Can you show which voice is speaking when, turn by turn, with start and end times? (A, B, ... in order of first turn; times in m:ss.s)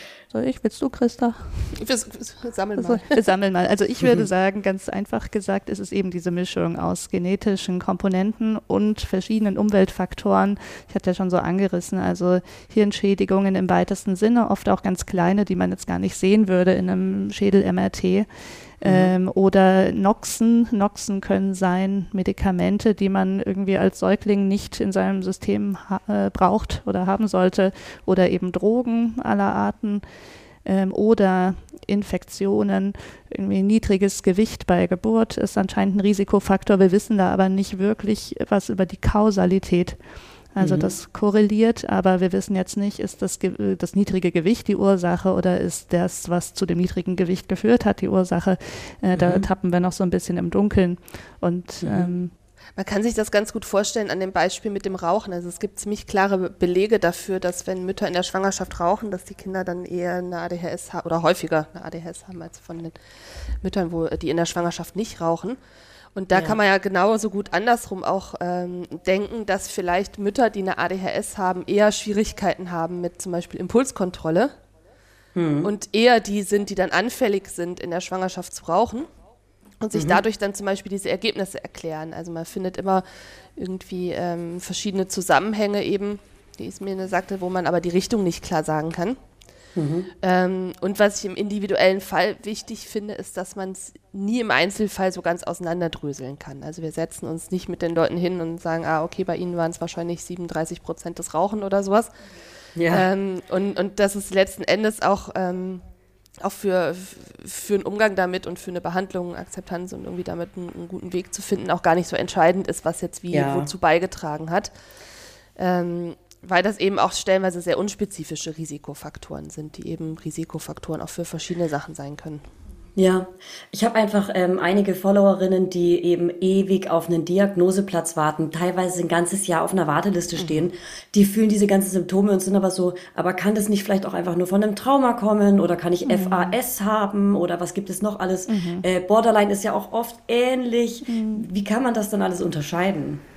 0:00.3-0:01.7 A
0:01.7-0:03.2 B
0:02.8-0:30.0 A
0:18.8-0:19.1 C
0:30.6-0:52.3 A
0:40.6-0:40.9 C
0:49.1-0:49.4 C
0:51.8-0:52.1 C
0:52.8-1:02.9 B
1:03.6-1:05.6 B
1:06.1-1:14.5 B
1:06.3-1:06.6 C
1:15.3-1:15.7 C
1:15.6-1:19.1 B
1:19.8-1:23.0 B
1:19.9-1:20.2 C
1:23.6-1:29.2 B
1:29.7-1:30.1 C
1:30.2-1:42.1 B
1:42.8-1:43.1 C
1:42.9-1:45.8 B
1:46.4-1:54.7 B
1:53.3-1:53.7 C
1:55.6-2:02.4 B
2:03.0-2:23.2 C
2:16.0-2:16.6 A
2:18.5-2:18.8 A
2:21.0-2:21.4 A